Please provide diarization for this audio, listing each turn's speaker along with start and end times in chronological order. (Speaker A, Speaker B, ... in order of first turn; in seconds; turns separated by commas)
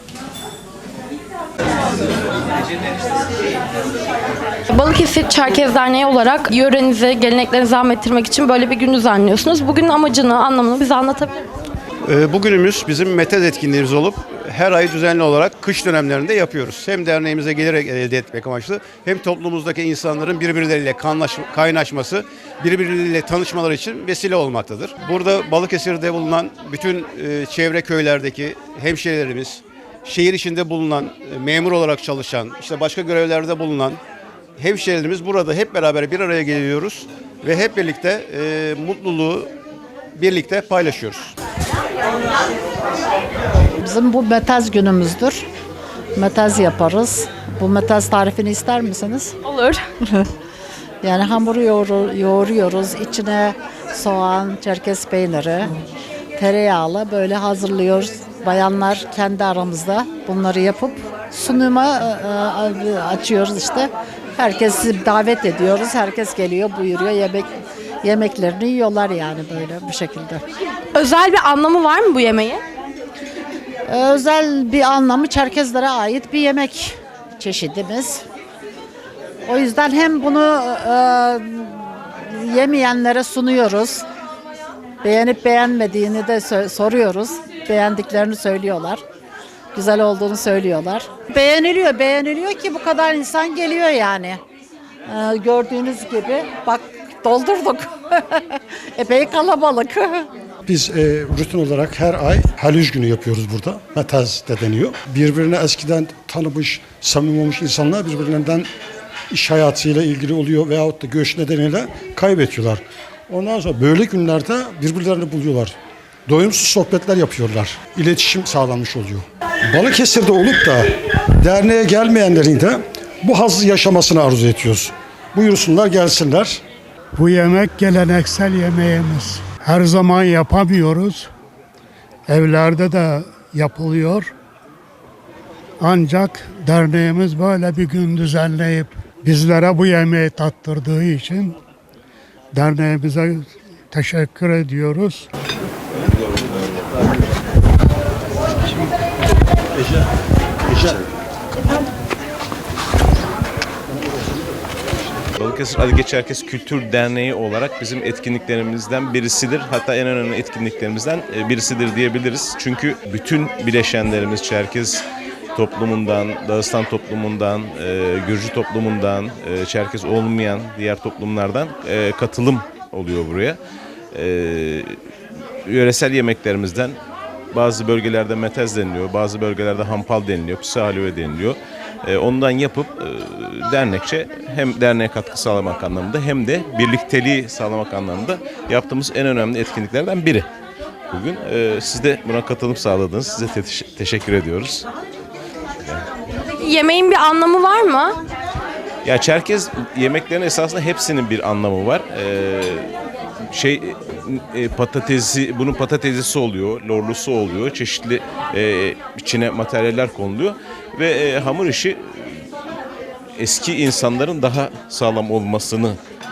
Speaker A: 4.7-11.5, Speaker B: 12.1-34.0, Speaker B: 34.6-39.5, Speaker B: 40.1-41.3, Speaker C: 43.8-45.5, Speaker C: 46.1-49.4, Speaker A: 49.4-49.8, Speaker C: 51.0-55.7, Speaker C: 56.4-70.4, Speaker A: 70.9-72.6, Speaker C: 73.8-78.2, Speaker C: 79.4-84.0, Speaker C: 85.0-89.0, Speaker C: 89.7-94.4, Speaker C: 95.0-100.3, Speaker D: 100.7-108.7, Speaker D: 109.3-115.8, Speaker D: 116.3-126.6, Speaker E: 127.2-131.3, Speaker E: 132.3-134.3, Speaker E: 135.8-141.5, Speaker E: 142.5-145.2, Speaker F: 155.3-173.6, Speaker F: 174.1-174.9, Speaker F: 175.6-177.0, Speaker F: 177.5-190.5, Speaker F: 191.1-194.9, Speaker F: 195.8-196.1, Speaker A: 196.3-198.2, Speaker F: 199.0-202.9, Speaker F: 203.5-212.4, Speaker F: 213.4-216.0